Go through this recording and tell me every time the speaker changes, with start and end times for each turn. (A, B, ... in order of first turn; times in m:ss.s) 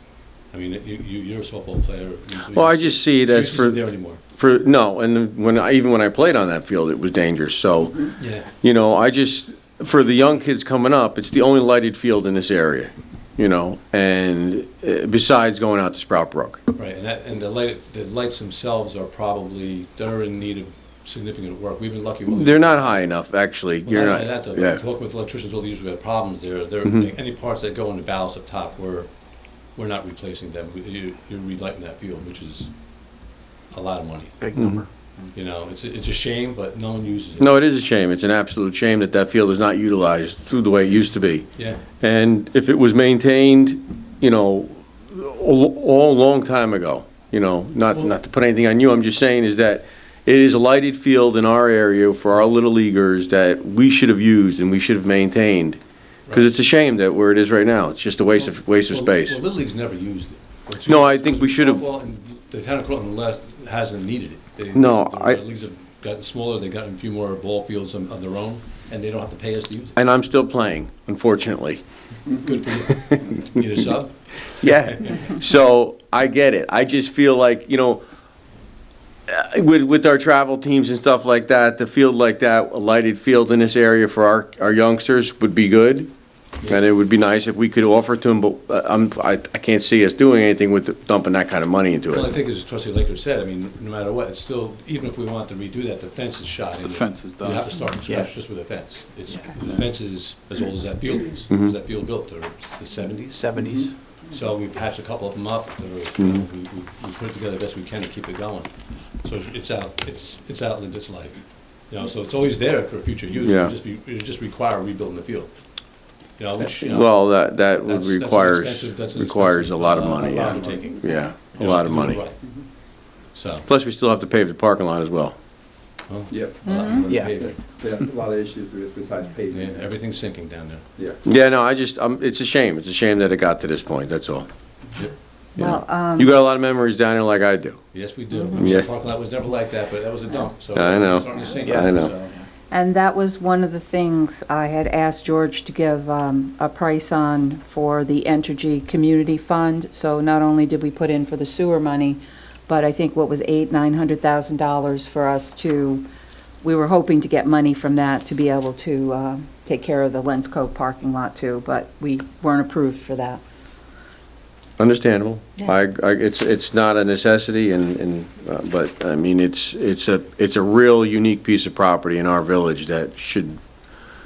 0:00.5-0:04.2 A
0:02.5-0:08.1 B
0:08.2-0:08.5 A
0:08.6-0:16.6 B
0:16.7-0:22.9 A
0:22.3-0:24.8 B
0:23.8-0:29.1 A
0:26.8-0:27.1 B
0:29.7-0:32.7 A
0:33.7-0:34.5 A
0:34.4-0:34.8 C
0:34.5-0:34.8 B
0:35.3-0:37.5 A
0:37.4-0:41.5 B
0:41.6-0:41.8 A
0:42.0-0:55.8 B
0:56.3-0:56.6 A
0:56.3-0:59.4 B
0:58.9-1:10.0 A
1:00.8-1:01.8 B
1:04.7-1:05.4 B
1:10.0-1:11.8 B
1:12.3-1:15.3 A
1:13.0-1:13.6 B
1:14.6-1:18.0 B
1:19.3-1:26.1 B
1:26.6-1:32.3 B
1:32.1-1:43.5 A
1:36.8-1:38.5 C
1:41.5-1:41.8 B
1:43.3-1:43.9 C
1:44.3-1:48.7 A
1:46.2-1:46.4 B
1:49.2-1:55.5 A
1:53.4-1:53.7 B
1:56.4-2:02.4 A
1:56.6-2:02.2 B
2:03.3-2:03.7 A
2:03.7-2:05.3 B
2:06.1-2:07.6 A
2:06.3-2:06.6 D
2:06.6-2:07.0 E
2:07.0-2:07.5 C
2:07.6-2:09.8 D
2:09.5-2:10.8 A
2:11.2-2:14.5 B
2:15.6-2:16.3 E
2:15.6-2:17.8 B
2:17.9-2:22.3 A
2:18.3-2:18.6 E
2:18.6-2:18.9 B
2:20.7-2:22.1 B
2:21.6-2:22.4 C
2:22.7-2:36.0 E
2:36.6-2:43.4 E
2:44.8-2:53.6 B